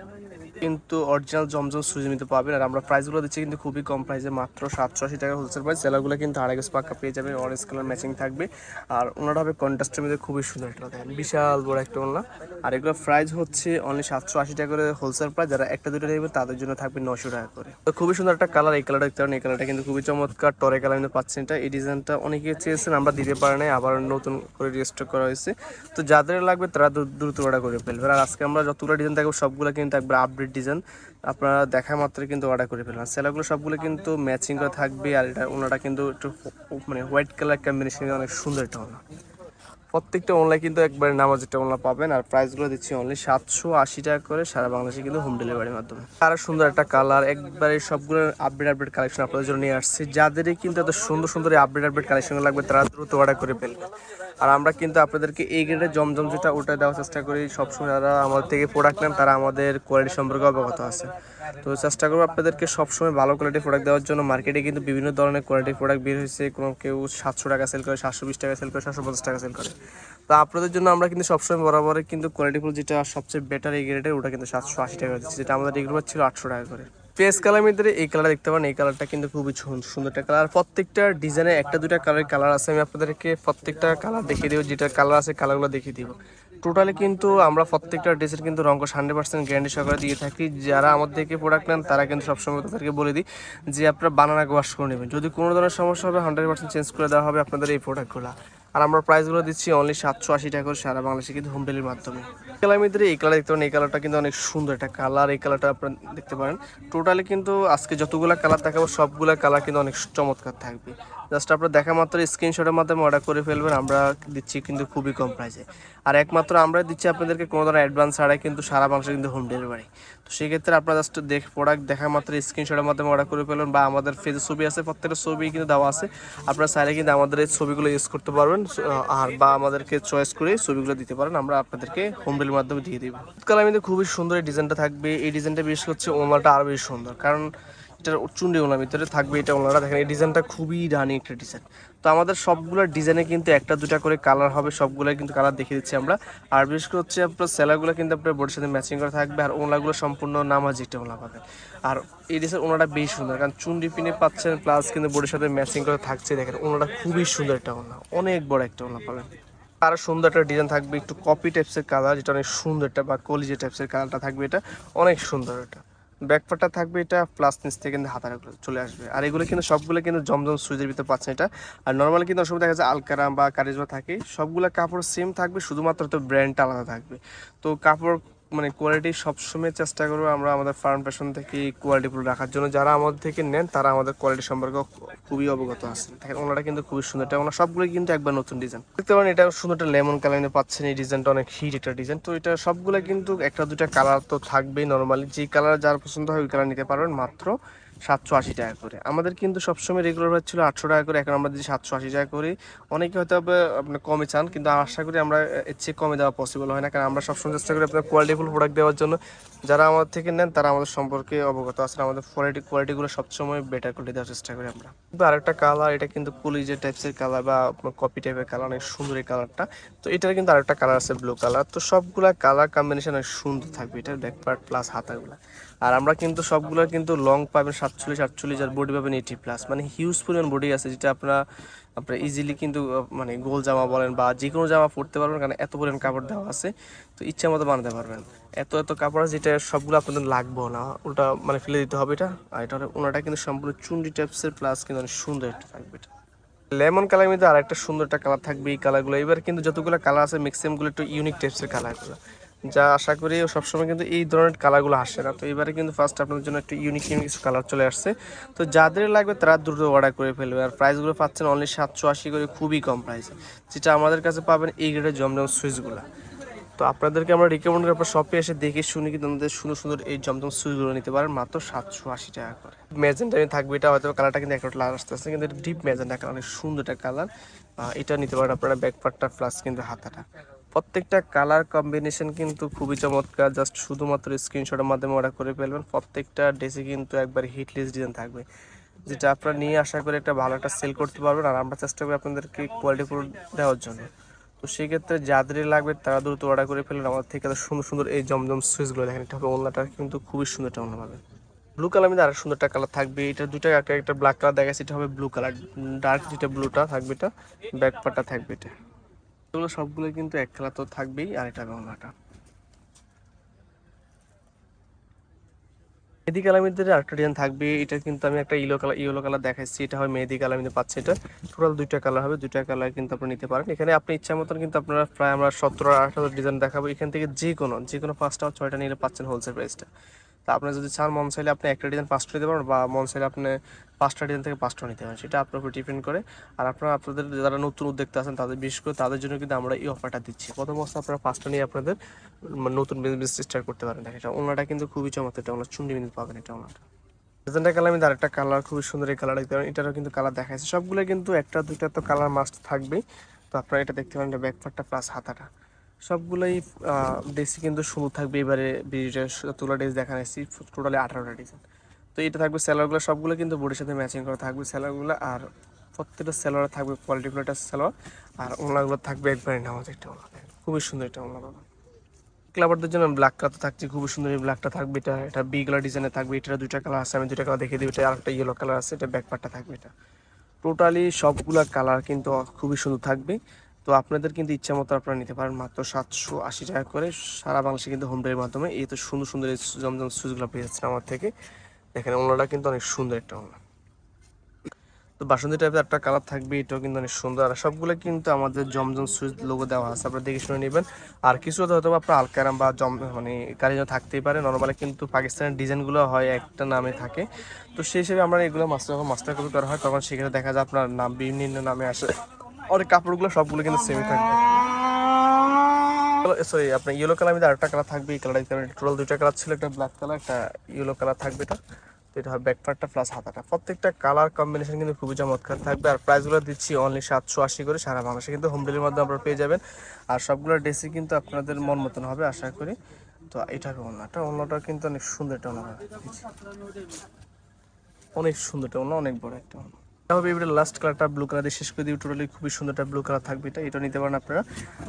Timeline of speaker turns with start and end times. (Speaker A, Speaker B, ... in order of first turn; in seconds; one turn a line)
Speaker A: 0.5-39.0
Speaker A: 39.9-53.9
Speaker A: 54.4-61.1
Speaker A: 61.6-69.8
Speaker A: 70.3-137.5
Speaker A: 138.0-197.5
Speaker A: 198.1-231.4
Speaker A: 232.0-246.1
Speaker A: 246.7-266.1
Speaker A: 266.8-288.4
Speaker A: 289.1-294.1
Speaker A: 294.6-301.2
Speaker A: 301.8-308.7
Speaker A: 309.5-312.1
Speaker A: 316.3-329.9
Speaker A: 330.5-341.9
Speaker A: 342.5-346.8
Speaker A: 347.5-353.0
Speaker A: 353.5-355.5
Speaker A: 356.1-361.6
Speaker A: 362.1-371.6
Speaker A: 372.5-379.9
Speaker A: 380.6-391.3
Speaker A: 391.9-393.6
Speaker A: 395.2-412.1
Speaker A: 412.7-421.6
Speaker A: 422.1-432.8
Speaker A: 433.3-436.8
Speaker A: 438.2-444.4